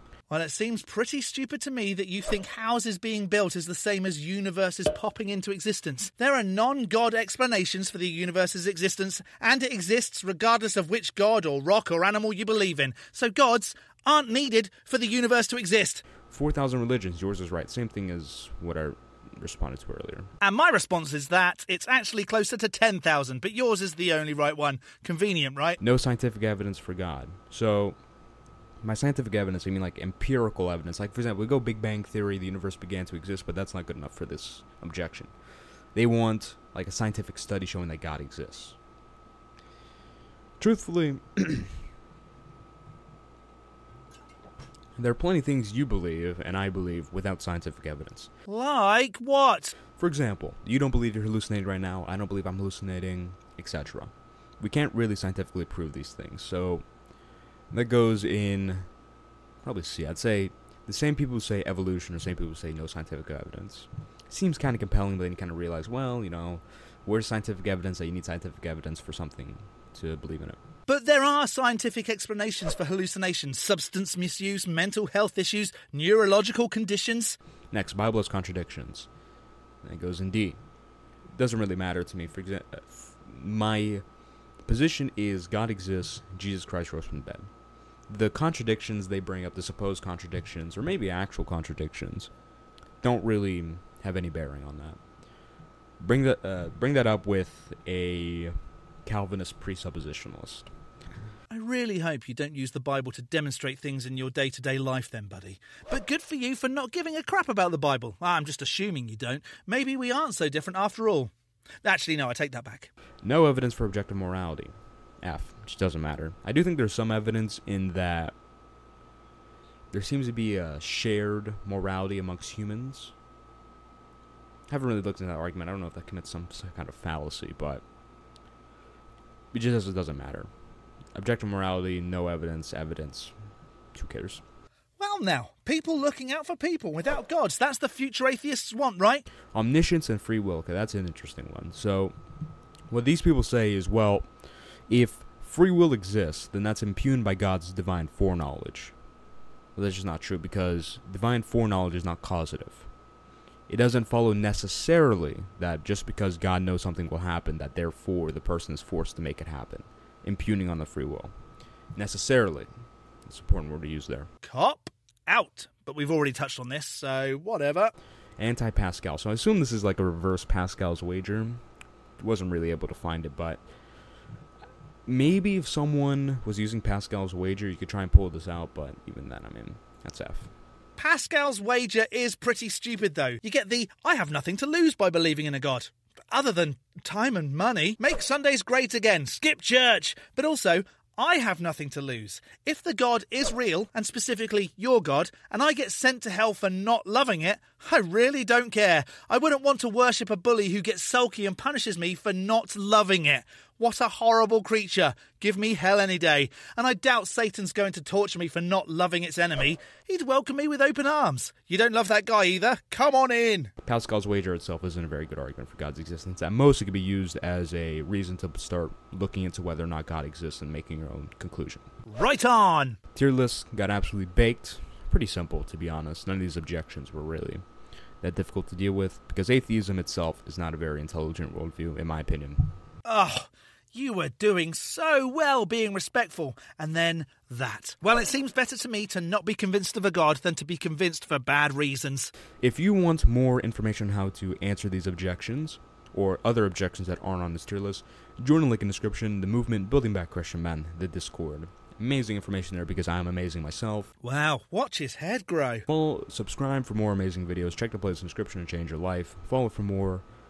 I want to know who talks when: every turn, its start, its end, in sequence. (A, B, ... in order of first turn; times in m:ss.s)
0:00.3-0:16.0 A
0:16.3-0:20.3 B
0:20.4-0:25.8 A
0:25.8-0:28.1 B
0:28.8-0:35.4 B
0:35.9-0:38.8 B
0:40.6-0:41.8 B
0:45.0-0:48.3 B
0:48.5-0:49.7 A
0:50.0-0:56.8 B
0:57.7-0:58.9 B
0:59.6-1:10.6 B
1:10.9-1:17.4 A
1:17.7-1:19.1 B
1:19.8-1:20.6 B
1:21.3-1:24.0 B
1:24.6-1:27.5 B
1:28.1-1:32.3 B
1:33.0-1:35.2 B
1:36.0-1:40.7 B
1:41.5-1:51.3 A
1:51.8-1:52.9 A
1:53.2-1:58.3 B
1:59.9-2:03.1 B
2:04.7-2:07.8 B
2:09.5-2:10.5 B
2:11.1-2:13.4 B
2:13.9-2:14.4 B
2:15.0-2:19.3 A
2:19.5-2:22.2 B
2:22.9-2:29.0 B
2:29.8-2:32.9 B
2:33.7-2:41.3 B
2:41.9-2:42.7 B
2:43.3-2:44.3 B
2:44.4-2:47.9 A
2:48.4-2:51.6 B
2:52.2-2:53.6 B
2:55.1-3:00.5 B
3:01.0-3:33.7 A
3:33.8-3:41.8 B
3:42.1-3:43.0 A
3:43.2-3:47.6 B
3:48.2-3:52.7 B
3:53.0-4:02.3 A
4:02.6-4:14.1 B
4:14.2-4:15.9 A
4:15.9-4:20.2 B